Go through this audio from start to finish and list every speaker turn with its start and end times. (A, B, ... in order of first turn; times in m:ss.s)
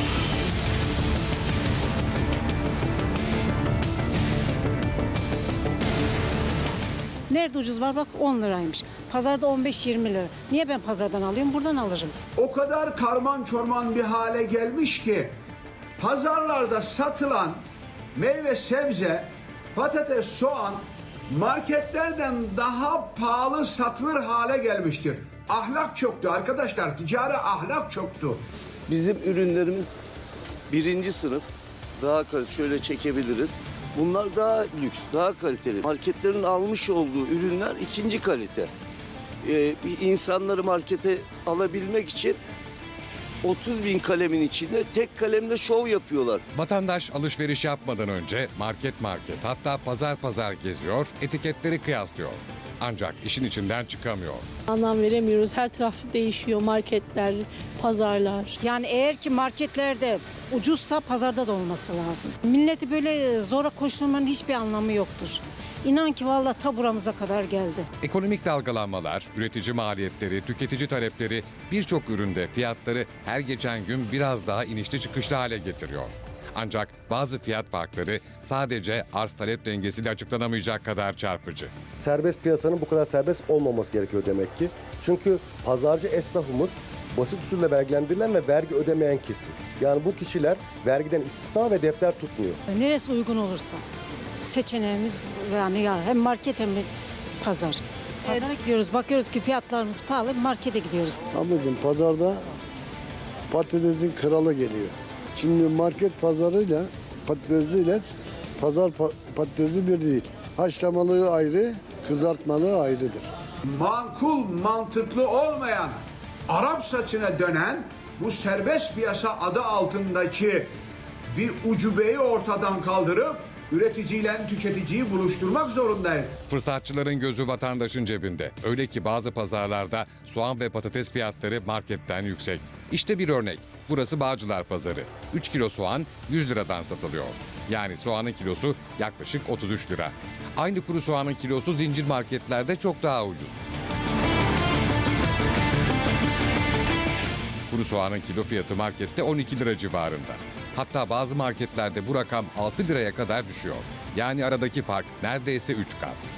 0:07.3-0:12.2 A
0:12.4-0:15.3 B
0:16.0-0:17.6 B
0:18.2-0:28.4 B
0:28.9-0:29.9 C
0:30.7-0:31.4 C
0:32.0-0:38.7 C
0:39.4-0:42.4 C
0:43.4-0:46.4 C
0:46.5-0:54.5 D
0:54.7-0:58.6 E
0:58.6-1:07.9 A
1:08.0-1:21.7 D
1:22.0-1:32.6 F
1:32.7-1:33.8 A
1:34.4-1:36.9 A
1:37.4-1:41.2 A
1:41.3-1:42.4 G
1:43.5-1:48.0 G
1:48.6-1:53.3 G
1:53.7-2:00.7 B
2:01.3-2:06.4 B
2:06.5-2:23.6 D
2:27.7-2:36.2 D